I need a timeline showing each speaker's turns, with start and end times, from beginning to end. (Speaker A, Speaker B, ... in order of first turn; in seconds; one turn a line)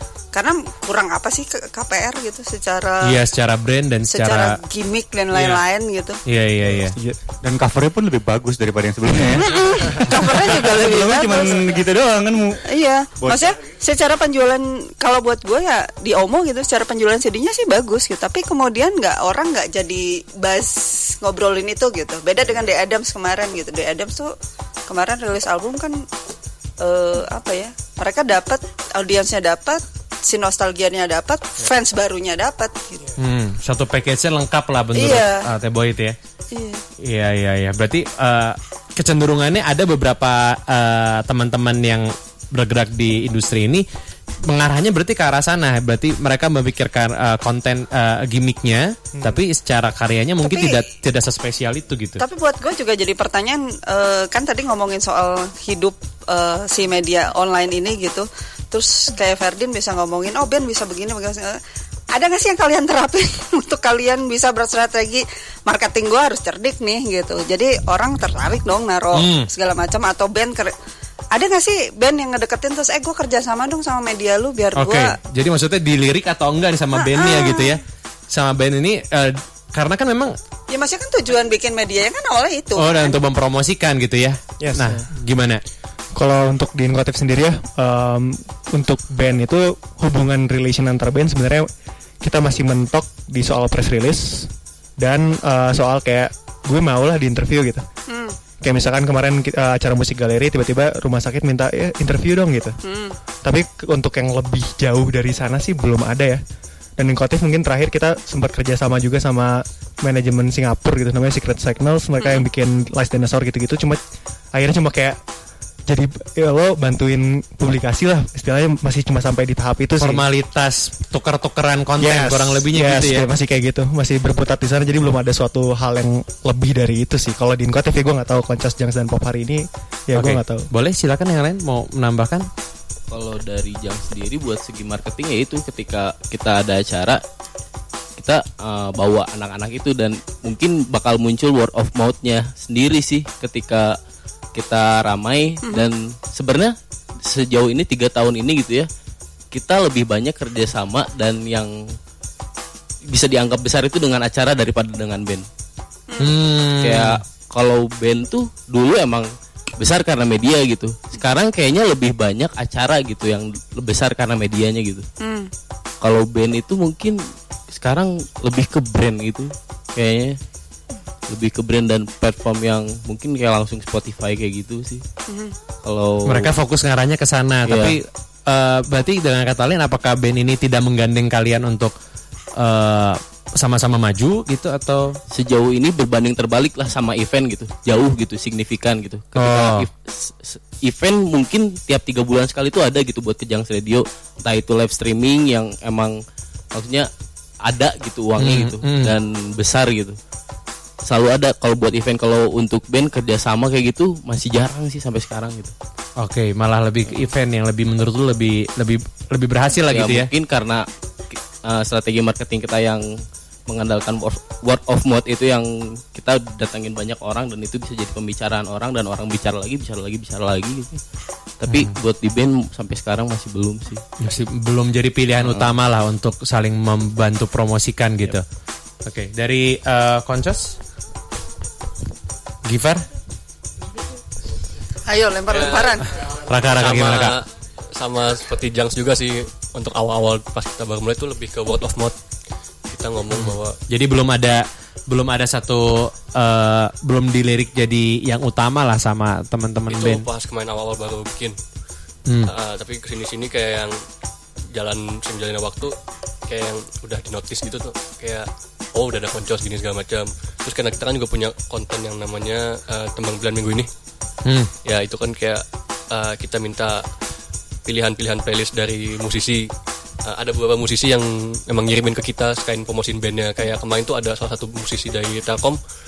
Speaker A: 0.3-3.2
Speaker B: 3.0-4.6
Speaker A: 4.1-6.2
Speaker B: 5.3-5.6
Speaker B: 6.2-7.0
Speaker C: 6.8-7.2
Speaker D: 7.4-12.6
Speaker A: 9.3-11.8
Speaker A: 12.7-24.3
Speaker D: 13.2-13.6
Speaker A: 24.9-26.0
Speaker A: 26.8-33.1
Speaker B: 33.2-36.1
Speaker A: 35.0-35.4
Speaker A: 36.5-36.8
Speaker B: 37.0-43.9
Speaker B: 44.5-52.2
Speaker A: 50.4-50.8
Speaker A: 52.2-61.6
Speaker A: 62.1-70.7
Speaker B: 69.1-69.5
Speaker A: 71.3-75.2
Speaker B: 74.7-80.3
Speaker A: 76.9-77.8
Speaker A: 80.7-83.2
Speaker B: 82.8-85.6
Speaker C: 84.6-85.0
Speaker C: 86.2-91.7
Speaker C: 92.2-97.8
Speaker A: 98.1-98.4
Speaker C: 98.6-102.8
Speaker A: 102.8-103.2
Speaker C: 103.4-106.4
Speaker C: 107.0-114.0
Speaker C: 114.5-115.2
Speaker C: 115.9-120.2
Speaker B: 120.0-123.2
Speaker C: 122.0-130.7
Speaker B: 130.1-132.5
Speaker E: 133.1-137.2
Speaker E: 138.2-143.9
Speaker E: 144.6-148.9
Speaker E: 149.5-151.7
Speaker E: 153.1-155.5
Speaker A: 156.1-156.4
Speaker B: 156.2-157.2
Speaker E: 156.8-165.1
Speaker A: 165.2-165.5
Speaker E: 166.0-167.2
Speaker E: 167.7-170.4
Speaker E: 171.3-175.0
Speaker A: 175.3-175.5
Speaker E: 175.8-176.5
Speaker B: 176.3-181.9
Speaker E: 177.7-178.0
Speaker B: 182.6-185.2
Speaker E: 185.3-196.2
Speaker B: 189.3-189.9
Speaker E: 196.7-197.1
Speaker E: 197.6-200.2
Speaker B: 198.4-199.2
Speaker E: 201.1-205.7
Speaker B: 206.2-210.3
Speaker E: 209.9-213.1
Speaker E: 213.7-221.0
Speaker E: 221.6-224.0
Speaker B: 221.7-221.9
Speaker B: 224.2-228.4
Speaker E: 225.4-225.7
Speaker B: 229.0-230.7
Speaker B: 232.6-233.0
Speaker A: 235.1-236.2
Speaker F: 235.5-242.1
Speaker B: 236.4-237.3
Speaker F: 242.8-243.8
Speaker B: 243.3-250.2
Speaker F: 249.9-251.6
Speaker B: 252.3-252.5
Speaker F: 252.4-254.0
Speaker F: 254.7-255.9
Speaker F: 256.5-263.9
Speaker B: 264.4-264.7
Speaker F: 264.8-267.1
Speaker F: 267.8-269.7
Speaker F: 270.2-275.8